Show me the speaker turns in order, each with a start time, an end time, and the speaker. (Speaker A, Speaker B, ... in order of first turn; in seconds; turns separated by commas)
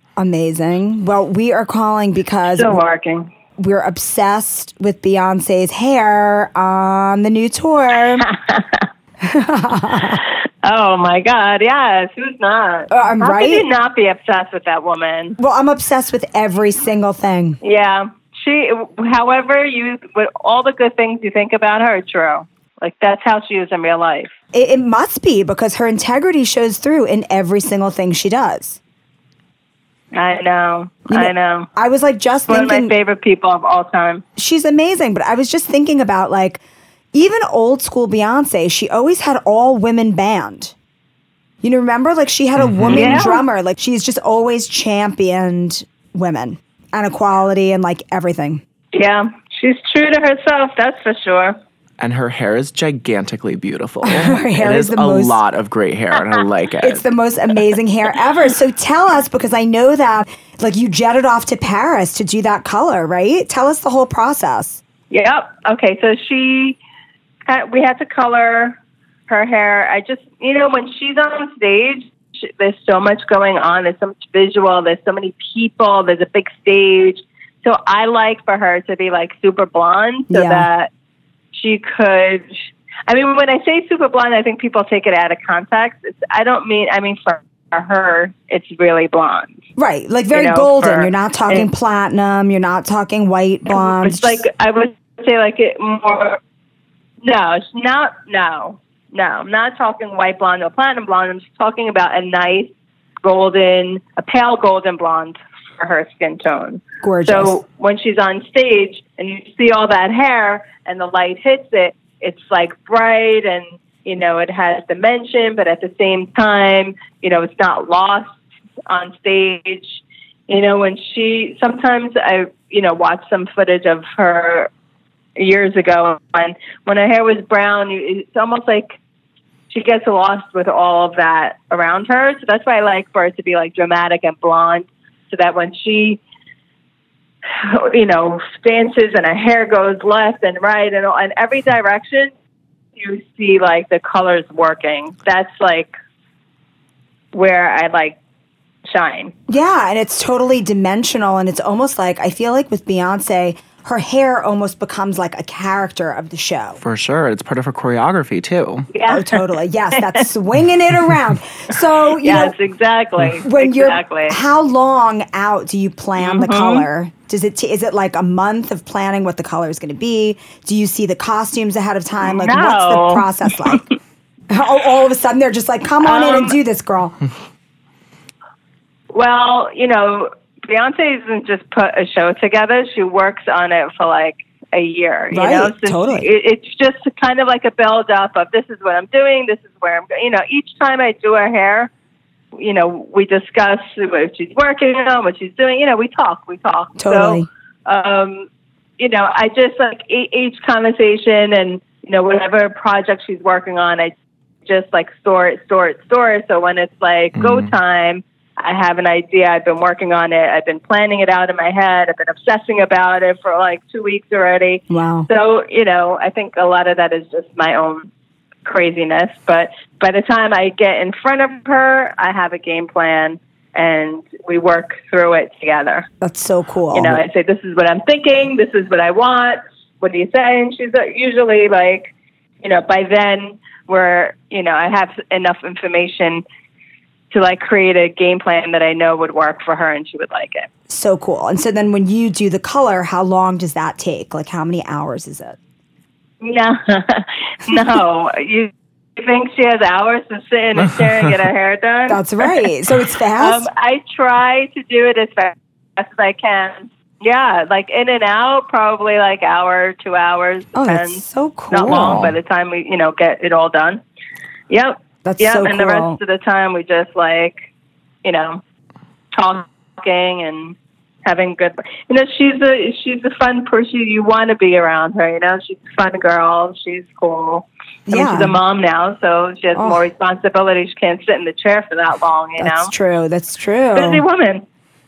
Speaker A: 0.2-2.8, Speaker B: 2.5-3.3, Speaker A: 3.6-8.2, Speaker B: 8.2-8.8, Speaker A: 9.2-10.2, Speaker B: 10.2-15.3, Speaker A: 12.9-13.7, Speaker A: 15.4-17.6, Speaker B: 17.6-24.3, Speaker A: 24.5-28.8, Speaker B: 30.1-31.7, Speaker A: 31.1-32.9, Speaker B: 32.5-34.2, Speaker A: 34.4-36.6, Speaker A: 37.1-40.7, Speaker A: 41.6-48.6, Speaker C: 42.6-43.3, Speaker B: 42.9-43.4, Speaker B: 48.9-51.6, Speaker C: 52.0-57.0, Speaker A: 54.0-55.4, Speaker A: 56.8-64.8, Speaker B: 65.1-66.8, Speaker B: 67.5-68.8, Speaker B: 69.3-80.9, Speaker A: 80.3-80.7, Speaker B: 81.5-89.5, Speaker A: 89.8-94.4, Speaker B: 90.3-91.7, Speaker B: 93.7-96.4, Speaker B: 97.2-102.7, Speaker B: 103.2-124.7, Speaker A: 107.0-107.6, Speaker B: 125.3-129.0, Speaker B: 129.7-136.2, Speaker B: 137.5-142.3, Speaker B: 142.9-145.9, Speaker B: 147.3-148.2, Speaker B: 148.8-149.3, Speaker A: 149.5-156.8, Speaker C: 156.8-158.9, Speaker B: 158.9-160.3, Speaker A: 159.1-162.5, Speaker B: 162.2-164.4, Speaker A: 163.4-173.8, Speaker B: 166.2-166.8, Speaker B: 172.2-173.8, Speaker A: 174.5-177.2, Speaker B: 176.0-176.6, Speaker B: 179.1-191.9, Speaker A: 185.3-186.3, Speaker B: 192.5-198.5, Speaker A: 197.0-197.5, Speaker B: 199.0-204.1, Speaker B: 204.7-218.1, Speaker C: 207.3-207.7, Speaker A: 214.9-215.3, Speaker B: 218.6-226.1, Speaker A: 226.2-227.2, Speaker B: 226.9-236.4, Speaker B: 237.3-240.7, Speaker A: 240.9-245.6, Speaker B: 246.4-252.5, Speaker C: 250.8-251.2, Speaker A: 252.1-253.7, Speaker B: 253.4-264.0, Speaker A: 260.7-262.3, Speaker C: 261.9-262.3, Speaker B: 264.7-267.6, Speaker A: 265.2-266.2, Speaker B: 268.2-268.6, Speaker B: 269.3-282.9, Speaker A: 278.1-278.6, Speaker A: 279.7-280.0, Speaker A: 282.6-284.2, Speaker B: 283.9-284.6